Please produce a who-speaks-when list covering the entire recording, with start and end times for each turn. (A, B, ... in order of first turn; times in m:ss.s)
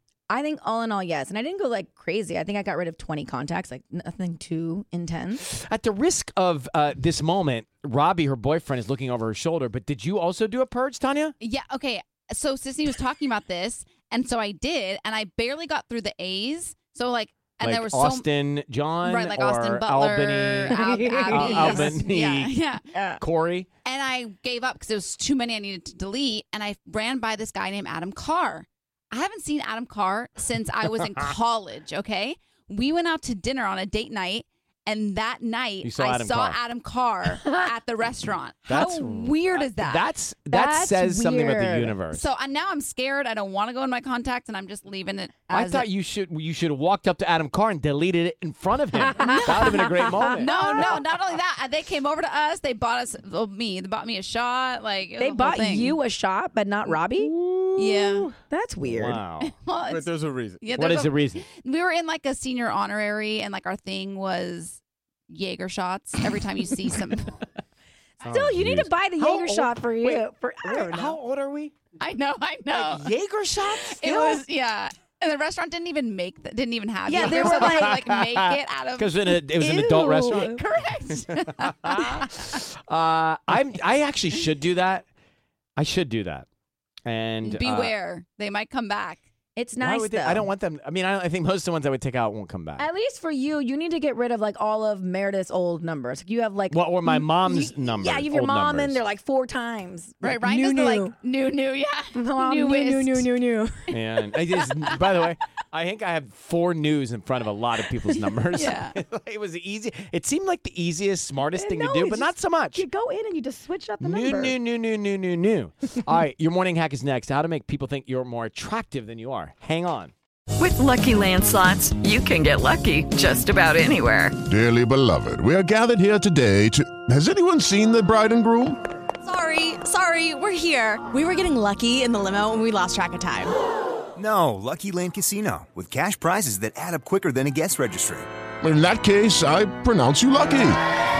0:00.3-0:05.5 A
0:05.4-0:11.3 B
0:11.4-0:18.3 C
0:17.6-0:22.6 B
0:19.0-0:22.8 C
0:20.7-0:22.1 A
0:23.0-0:23.2 A
0:23.2-0:23.7 B
0:23.8-0:40.0 C
0:35.8-0:36.6 B
0:38.7-0:42.3 B
0:40.5-0:42.0 A
0:42.1-0:45.8 C
0:45.5-0:45.8 A
0:45.5-0:51.0 B
0:49.2-0:51.0 A
0:49.2-0:49.6 C
0:50.4-0:56.0 C
0:55.2-0:59.2 A
0:56.9-0:58.1 B
0:57.8-0:58.3 C
0:58.8-0:59.5 B
0:59.4-1:07.3 C
1:00.2-1:01.4 B
1:08.2-1:11.2 A
1:08.2-1:11.9 B
1:12.0-1:13.1 C
1:12.7-1:14.4 B
1:13.7-1:19.3 C
1:17.1-1:18.1 A
1:17.2-1:25.1 B
1:19.6-1:20.6 A
1:20.4-1:22.4 C
1:25.8-1:26.5 B
1:27.0-1:28.0 B
1:27.4-1:29.2 C
1:29.6-1:30.5 A
1:29.8-1:32.8 B
1:32.8-1:41.2 A
1:36.7-1:39.0 B
1:40.2-1:43.3 C
1:42.2-1:44.0 A
1:43.9-1:52.8 B
1:44.6-1:45.0 C
1:48.5-1:49.0 C
1:51.5-1:54.6 A
1:54.0-2:00.1 B
2:00.6-2:04.4 D
2:04.5-2:08.8 E
2:09.2-2:13.5 F
2:14.2-2:18.3 G
2:18.6-2:20.8 E